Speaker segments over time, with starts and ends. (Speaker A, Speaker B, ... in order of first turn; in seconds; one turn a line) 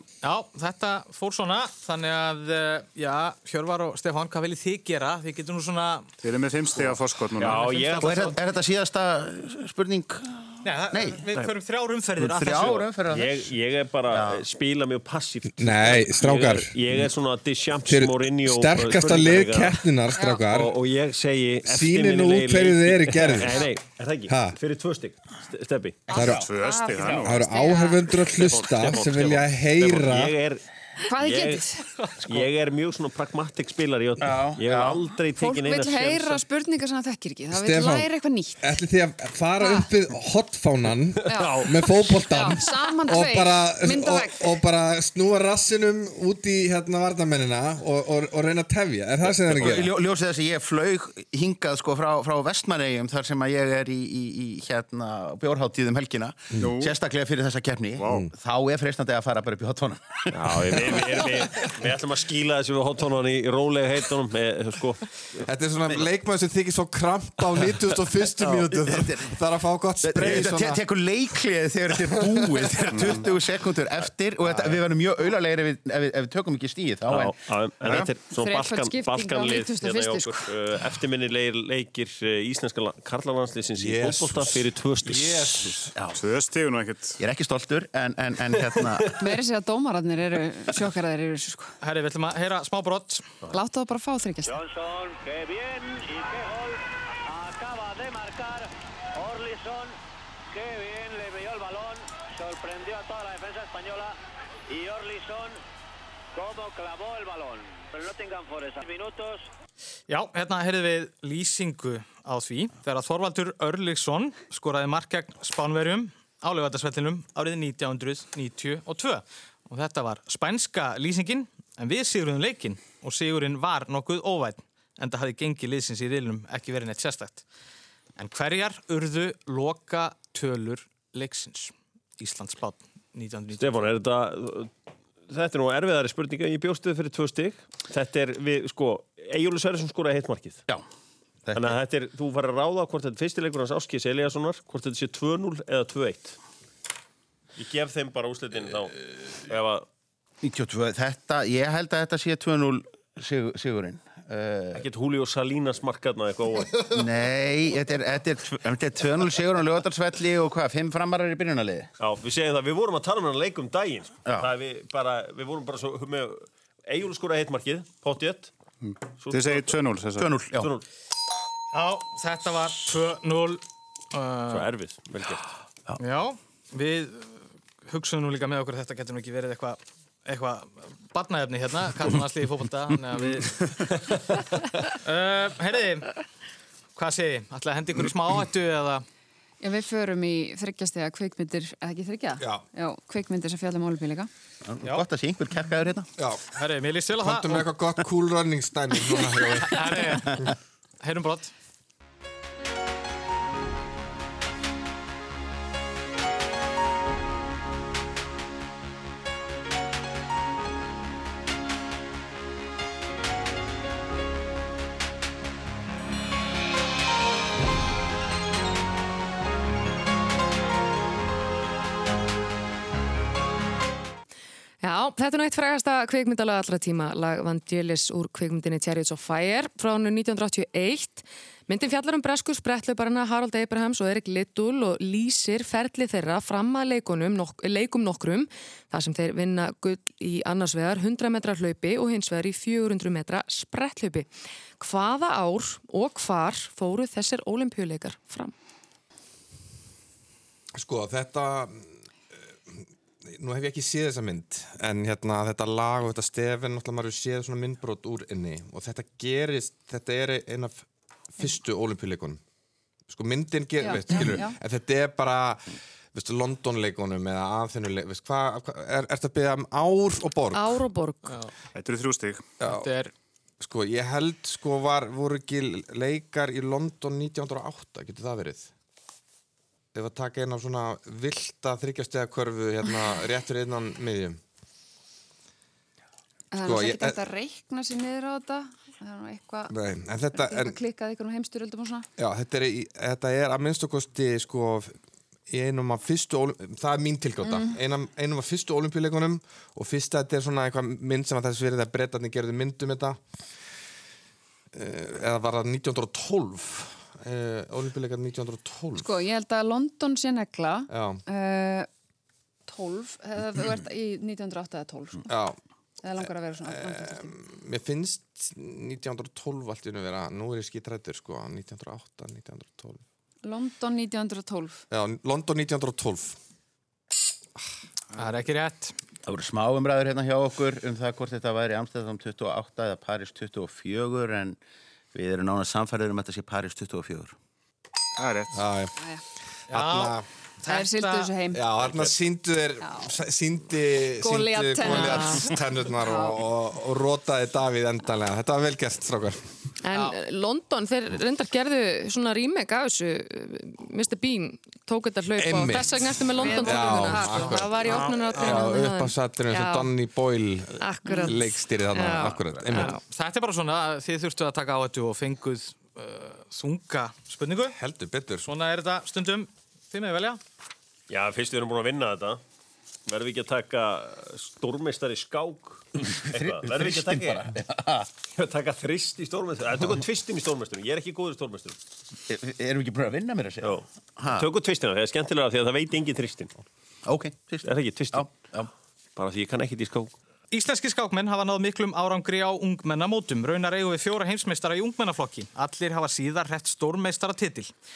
Speaker A: 0.2-6.1
Speaker B: 6.2-7.7
Speaker C: 7.4-8.3
Speaker A: 7.4-8.4
Speaker D: 8.0-11.2
Speaker A: 10.6-12.8
Speaker D: 12.2-13.5
Speaker C: 13.1-19.8
Speaker D: 14.1-14.4
Speaker E: 15.6-16.8
Speaker E: 17.8-20.7
Speaker F: 20.1-20.5
Speaker C: 20.5-26.0
Speaker E: 21.6-23.6
Speaker E: 24.3-24.6
Speaker D: 26.1-27.2
Speaker F: 26.1-28.2
Speaker E: 26.1-26.4
Speaker B: 26.3-27.4
Speaker E: 27.2-30.3
Speaker C: 28.3-31.7
Speaker F: 31.0-31.8
Speaker C: 32.2-36.5
Speaker D: 34.2-35.0
Speaker F: 35.4-38.7
Speaker E: 37.5-38.1
Speaker E: 38.6-49.9
Speaker F: 39.6-39.9
Speaker F: 41.2-44.6
Speaker C: 41.3-41.6
Speaker D: 49.5-61.5
Speaker B: 56.6-56.9
Speaker B: 58.0-58.2
Speaker C: 60.3-65.3
Speaker E: 65.4-70.8
Speaker D: 68.4-69.4
Speaker D: 70.0-77.3
Speaker E: 72.2-72.7
Speaker B: 72.9-73.2
Speaker C: 74.5-74.8
Speaker C: 77.1-85.7
Speaker F: 78.2-80.5
Speaker E: 83.8-85.9
Speaker B: 86.1-87.2
Speaker D: 87.2-89.1
Speaker F: 89.2-91.7
Speaker A: 91.8-93.3
Speaker F: 93.5-94.6
Speaker G: 94.9-96.4
Speaker G: 97.5-98.5
Speaker G: 99.2-99.8
Speaker G: 100.6-104.1
Speaker G: 104.7-105.5
Speaker G: 106.4-109.3
Speaker A: 110.1-127.4
Speaker A: 128.2-133.9
Speaker C: 133.6-134.7
Speaker C: 135.3-140.6
Speaker D: 141.5-141.7
Speaker C: 141.5-146.4
Speaker C: 147.6-149.8
Speaker D: 150.4-154.8
Speaker C: 154.7-156.8
Speaker D: 156.9-161.9
Speaker C: 162.0-168.5
Speaker D: 164.2-164.5
Speaker B: 168.8-170.3
Speaker C: 169.2-169.7
Speaker D: 170.2-170.7
Speaker C: 170.5-170.8
Speaker A: 171.7-173.6
Speaker A: 174.1-174.6
Speaker C: 174.5-175.4
Speaker A: 176.0-183.5
Speaker A: 184.9-186.1
Speaker A: 186.9-189.0
Speaker F: 189.6-194.3
Speaker E: 192.4-192.6
Speaker D: 194.7-196.1
Speaker E: 196.2-196.4
Speaker A: 196.5-197.7
Speaker E: 197.2-200.5
Speaker A: 199.7-200.4
Speaker A: 201.0-201.5
Speaker H: 224.8-248.5
Speaker E: 250.8-251.9
Speaker E: 252.7-260.8
Speaker E: 261.4-262.4
Speaker E: 263.1-270.8
Speaker F: 263.8-264.6
Speaker H: 270.5-271.3
Speaker A: 271.2-271.5
Speaker B: 271.7-272.4
Speaker E: 272.6-272.9
Speaker A: 272.6-273.1
Speaker E: 273.6-278.7
Speaker E: 279.9-284.4
Speaker F: 286.5-289.7
Speaker E: 286.6-287.2
Speaker E: 289.7-290.8
Speaker F: 290.3-292.1
Speaker E: 292.2-294.9
Speaker E: 295.5-303.2
Speaker F: 297.4-297.8
Speaker E: 304.7-309.1
Speaker F: 308.9-311.9
Speaker E: 310.9-311.2
Speaker F: 312.7-315.3
Speaker E: 315.3-315.6
Speaker F: 316.0-317.4
Speaker E: 316.2-323.0
Speaker F: 323.4-324.8
Speaker E: 324.9-326.4
Speaker A: 328.1-328.9
Speaker D: 329.2-334.6
Speaker D: 335.1-337.4
Speaker B: 338.2-338.5
Speaker E: 338.5-338.9
Speaker F: 339.0-339.2
Speaker A: 339.7-341.3
Speaker E: 339.7-340.2
Speaker F: 340.6-341.6
Speaker E: 341.5-349.4
Speaker C: 341.8-342.1
Speaker F: 342.8-343.1
Speaker F: 344.2-346.4
Speaker H: 344.8-345.5
Speaker H: 349.8-359.9
Speaker E: 355.3-362.9
Speaker F: 356.4-358.4
Speaker H: 360.8-363.0
Speaker A: 362.7-367.8
Speaker E: 367.7-368.5
Speaker A: 368.4-370.4
Speaker C: 371.1-372.4
Speaker C: 373.1-377.5
Speaker D: 376.0-378.1
Speaker C: 378.4-381.8
Speaker D: 382.3-384.4
Speaker C: 383.6-386.5
Speaker D: 387.1-388.7
Speaker C: 387.6-388.4
Speaker C: 389.1-390.1
Speaker A: 390.5-397.7